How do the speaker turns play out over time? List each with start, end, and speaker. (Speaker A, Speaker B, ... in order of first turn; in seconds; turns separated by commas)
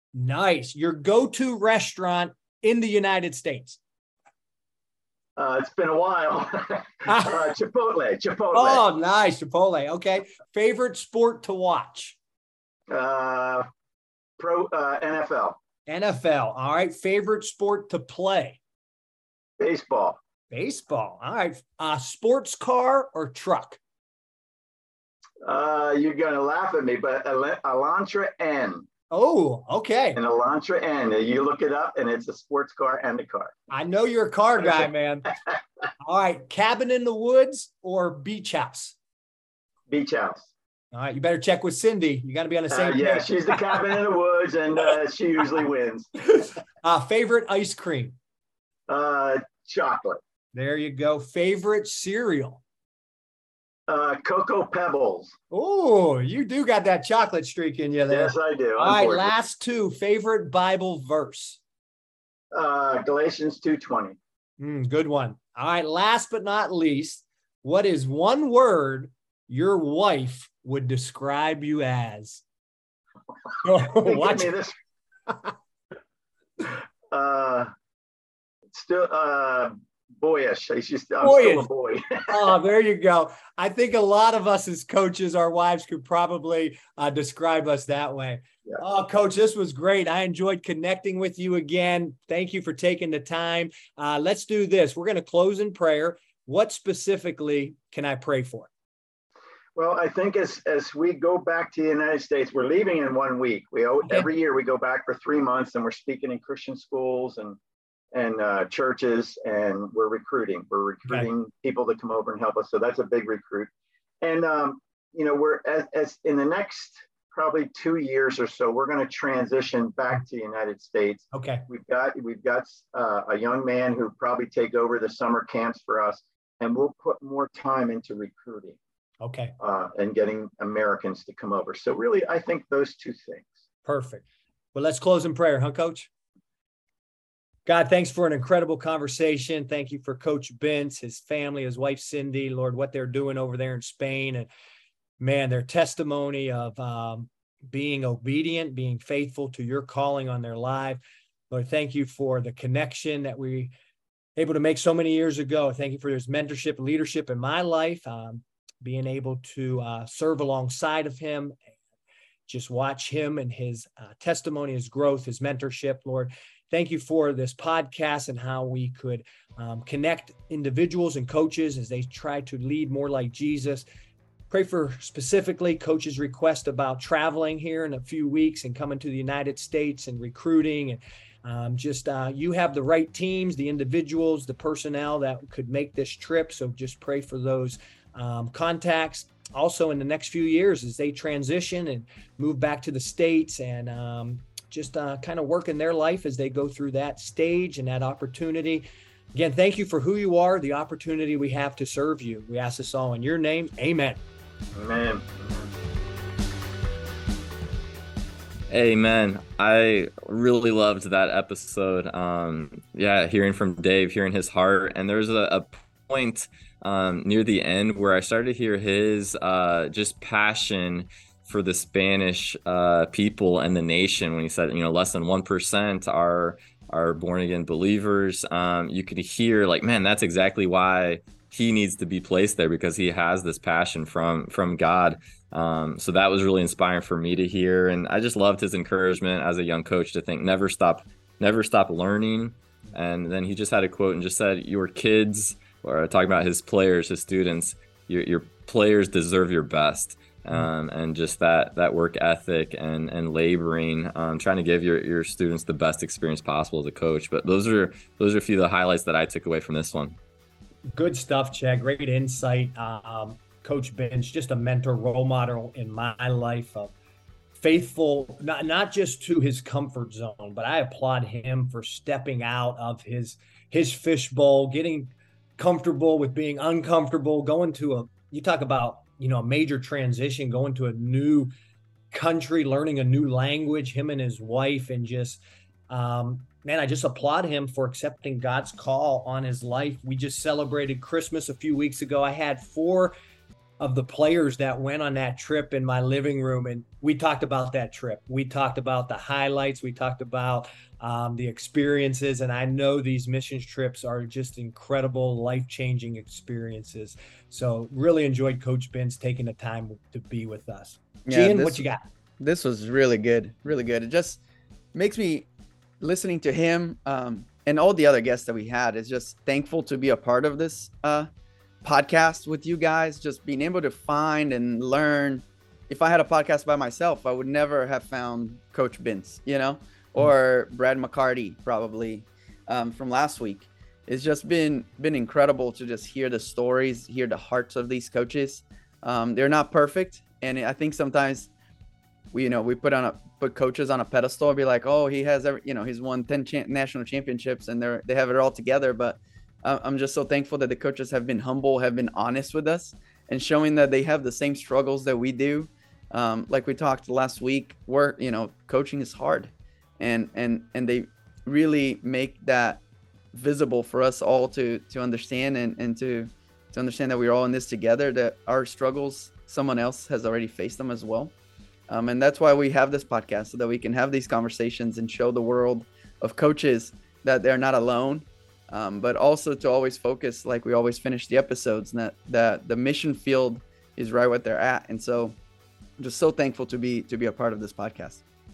Speaker A: 0.1-3.8, Speaker B: 5.4-8.8, Speaker A: 7.1-7.5, Speaker A: 8.5-12.2, Speaker B: 12.9-13.7, Speaker B: 14.4-15.6, Speaker A: 15.9-18.6, Speaker B: 19.6-20.2, Speaker A: 20.5-23.8, Speaker B: 25.4-28.9, Speaker A: 29.1-30.2, Speaker B: 30.2-33.6, Speaker A: 33.7-35.3, Speaker B: 34.6-34.9, Speaker A: 36.0-39.0, Speaker B: 39.9-40.5, Speaker A: 40.9-43.8, Speaker B: 42.7-46.1, Speaker A: 46.3-48.2, Speaker B: 48.9-50.2, Speaker A: 50.5-52.6, Speaker B: 53.9-55.4, Speaker A: 55.5-61.6, Speaker B: 58.1-59.3, Speaker B: 62.5-64.2, Speaker A: 64.6-72.4, Speaker B: 73.5-74.8, Speaker A: 73.6-74.5, Speaker B: 76.6-77.7, Speaker B: 78.7-82.5, Speaker A: 81.2-81.7, Speaker A: 82.3-98.7, Speaker B: 99.8-107.6, Speaker B: 108.1-113.7, Speaker B: 114.2-128.8, Speaker A: 121.3-121.7, Speaker A: 129.2-129.5, Speaker B: 129.6-133.6, Speaker A: 133.9-136.1, Speaker A: 137.7-144.5, Speaker A: 145.2-153.7, Speaker A: 154.4-161.6, Speaker A: 162.5-173.9, Speaker A: 174.5-204.2, Speaker B: 204.7-205.7, Speaker C: 208.7-260.2, Speaker A: 260.9-266.9, Speaker A: 267.6-281.5, Speaker A: 282.1-293.1, Speaker A: 293.8-312.1, Speaker D: 311.3-311.8, Speaker D: 312.4-314.4, Speaker D: 314.9-315.5, Speaker D: 316.0-321.3, Speaker D: 321.8-341.5, Speaker D: 342.3-362.8, Speaker D: 363.3-371.3, Speaker D: 371.9-385.4, Speaker D: 386.0-388.2